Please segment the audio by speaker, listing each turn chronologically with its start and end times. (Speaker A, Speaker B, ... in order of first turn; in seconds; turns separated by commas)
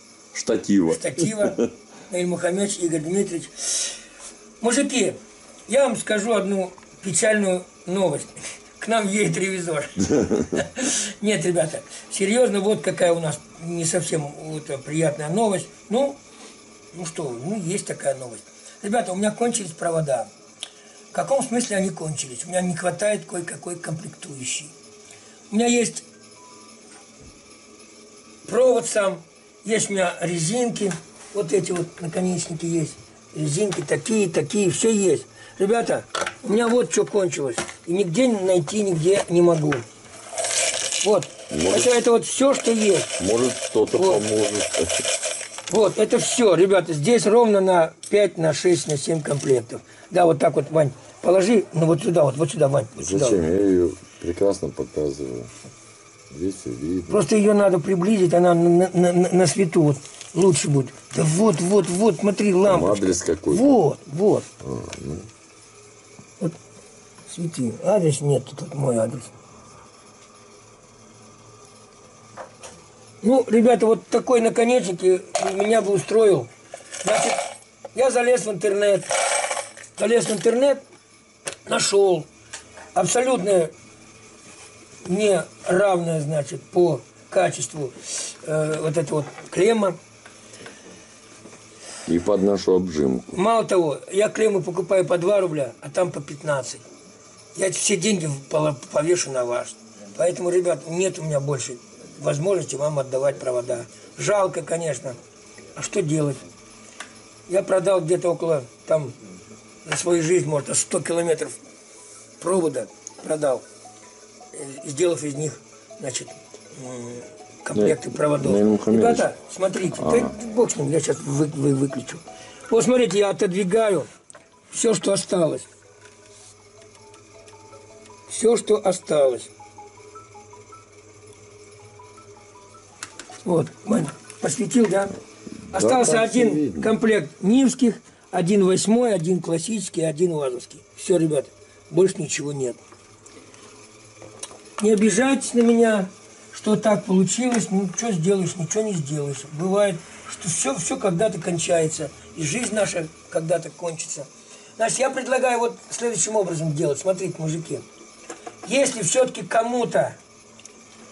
Speaker A: 0.3-1.7, Speaker B: 0.9-4.0, Speaker B: 4.6-16.2, Speaker B: 16.9-20.3, Speaker B: 21.1-24.7, Speaker B: 25.5-26.1, Speaker B: 28.4-39.8, Speaker B: 41.0-43.1, Speaker A: 41.5-41.9, Speaker A: 43.2-45.0, Speaker B: 44.0-44.2, Speaker B: 45.7-53.4, Speaker A: 53.0-55.5, Speaker A: 56.3-57.2, Speaker B: 57.1-64.5, Speaker A: 62.6-63.8, Speaker A: 64.6-65.3, Speaker B: 67.3-69.3, Speaker B: 73.2-76.5, Speaker B: 77.0-77.4, Speaker B: 77.9-79.1, Speaker B: 79.9-80.8, Speaker B: 81.7-82.3, Speaker B: 82.9-83.7, Speaker B: 85.0-90.0, Speaker A: 92.0-93.3, Speaker B: 93.3-96.8, Speaker B: 97.5-105.2, Speaker B: 105.8-106.4, Speaker B: 107.5-109.2, Speaker B: 109.8-111.6, Speaker B: 112.4-113.6, Speaker B: 114.5-124.1, Speaker A: 117.7-119.3, Speaker A: 120.0-120.3, Speaker B: 124.7-125.7, Speaker B: 128.3-129.5, Speaker B: 133.4-135.2, Speaker A: 135.7-136.9, Speaker B: 135.7-142.8, Speaker B: 144.8-157.8, Speaker B: 158.7-160.2